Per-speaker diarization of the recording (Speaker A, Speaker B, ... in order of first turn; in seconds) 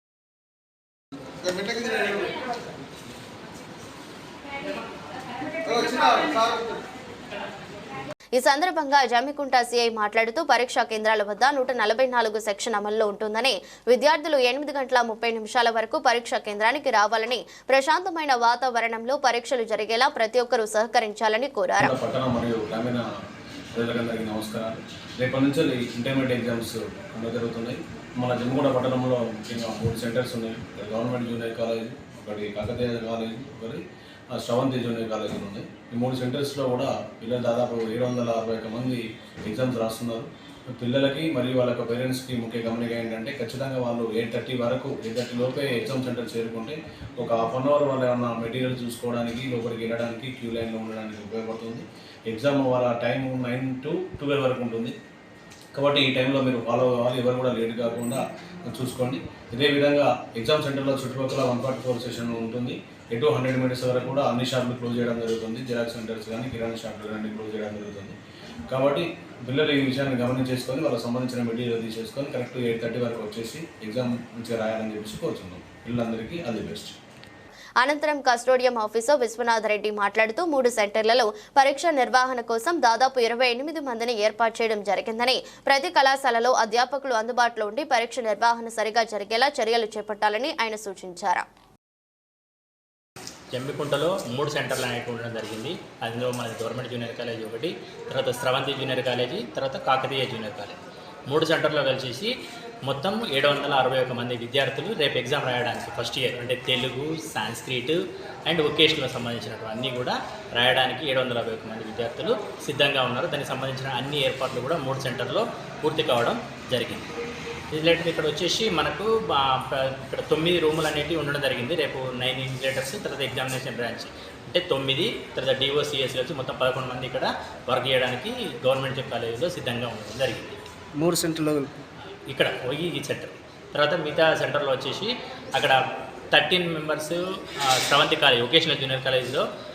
Speaker A: 1.5-2.2, 5.6-6.7, 131.0-131.7
Speaker B: 8.3-21.9, 77.8-91.5
Speaker C: 21.8-23.1, 23.7-33.8, 34.3-54.9, 55.7-68.1, 68.7-77.0
Speaker D: 93.5-102.3, 102.8-117.1, 117.7-130.6, 132.3-135.8, 136.3-139.4